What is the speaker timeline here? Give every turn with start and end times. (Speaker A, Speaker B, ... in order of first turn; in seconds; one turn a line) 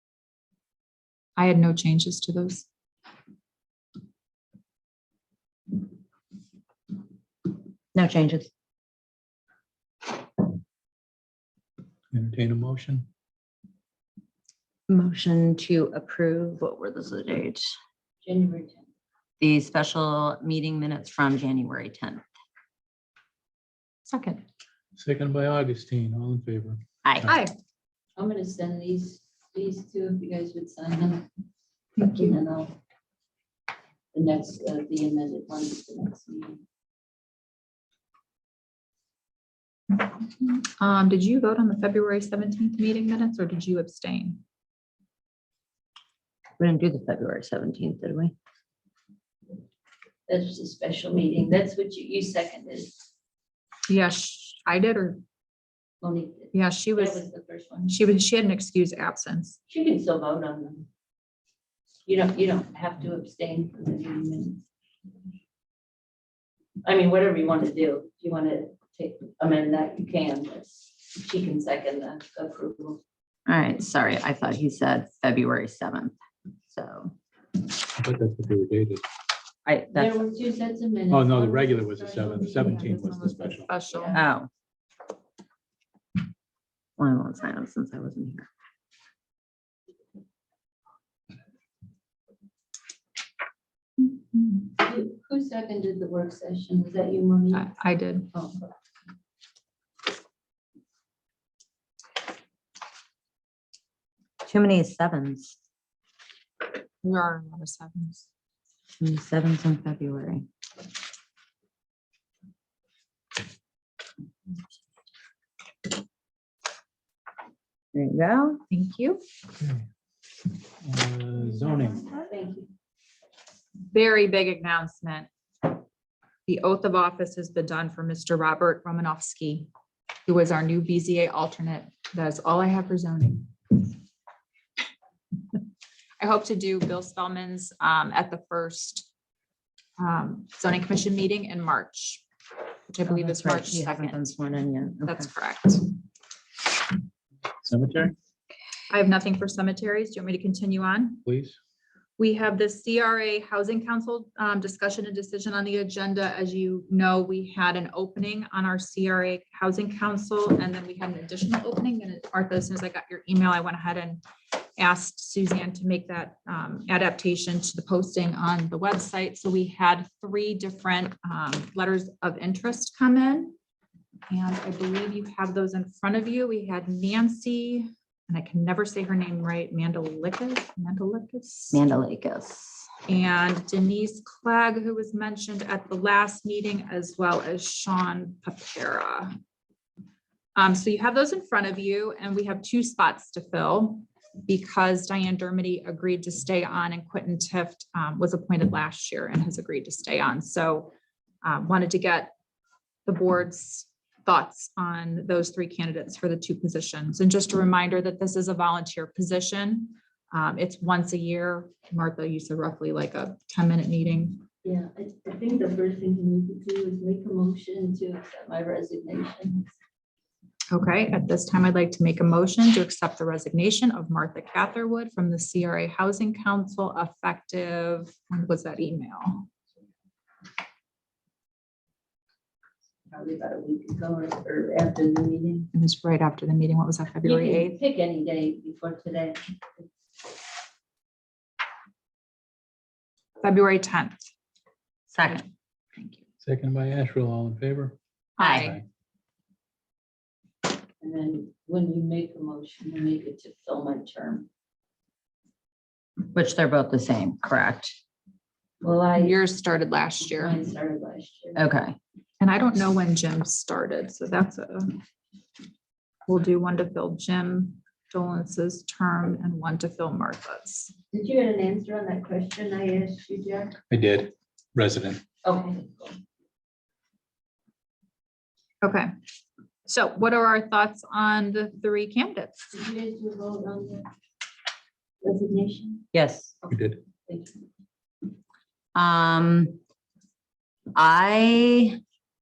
Speaker A: 1.4-2.6
Speaker B: 7.9-8.5
Speaker C: 12.1-13.1
Speaker B: 14.9-17.7
Speaker D: 18.2-18.9
Speaker B: 19.4-22.2
Speaker A: 24.1-24.4
Speaker C: 24.9-27.4
Speaker A: 27.2-27.5
Speaker D: 28.2-31.2
Speaker A: 32.0-32.4
Speaker D: 32.1-32.7
Speaker D: 34.1-36.6
Speaker A: 40.0-44.4
Speaker B: 46.6-48.3
Speaker D: 50.3-53.0
Speaker A: 53.9-55.2
Speaker D: 56.0-57.9
Speaker A: 56.5-57.2
Speaker A: 57.8-59.6
Speaker D: 59.7-60.9
Speaker D: 62.0-64.6
Speaker D: 66.8-73.0
Speaker B: 73.5-76.1
Speaker B: 76.7-77.1
Speaker C: 78.0-79.0
Speaker B: 79.7-80.2
Speaker D: 79.9-84.3
Speaker C: 81.1-83.7
Speaker A: 82.5-84.2
Speaker B: 84.1-84.5
Speaker B: 87.0-88.5
Speaker A: 94.0-94.7
Speaker D: 94.7-97.7
Speaker A: 97.5-98.3
Speaker D: 98.3-98.6
Speaker B: 104.4-105.5
Speaker A: 107.0-108.2
Speaker B: 109.0-110.5
Speaker B: 117.9-118.6
Speaker A: 118.7-119.2
Speaker C: 120.8-122.1
Speaker A: 121.3-122.3
Speaker D: 122.1-122.7
Speaker A: 123.9-125.3
Speaker A: 126.5-129.7
Speaker A: 130.2-133.7
Speaker A: 136.2-139.1
Speaker A: 140.0-142.2
Speaker A: 142.9-144.3
Speaker B: 143.1-145.3
Speaker A: 145.0-145.9
Speaker C: 147.6-148.1
Speaker A: 148.9-151.2
Speaker C: 151.2-151.6
Speaker A: 152.2-164.2
Speaker A: 164.8-173.5
Speaker A: 174.3-181.8
Speaker B: 181.7-182.9
Speaker A: 183.1-189.3
Speaker A: 190.6-202.3
Speaker A: 203.1-214.4
Speaker D: 214.6-219.7
Speaker A: 220.7-229.5
Speaker D: 233.1-235.7
Speaker A: 235.7-237.8
Speaker D: 237.2-239.9
Speaker A: 243.4-244.2
Speaker B: 245.1-245.4
Speaker A: 245.2-246.2
Speaker C: 246.4-247.9
Speaker A: 248.4-248.8
Speaker B: 248.4-248.7
Speaker D: 251.0-254.5
Speaker B: 256.3-257.9
Speaker D: 258.8-259.4
Speaker A: 259.1-260.6
Speaker D: 260.2-261.6
Speaker B: 261.5-262.0
Speaker A: 262.4-264.9
Speaker A: 266.3-270.9
Speaker D: 271.1-273.8
Speaker C: 273.9-275.2
Speaker D: 275.4-276.2
Speaker A: 278.8-279.1
Speaker A: 279.9-282.6
Speaker D: 282.7-284.1
Speaker D: 285.2-286.0
Speaker B: 286.1-286.5
Speaker D: 286.6-287.6
Speaker C: 286.7-287.0
Speaker B: 288.9-289.8
Speaker B: 290.9-292.0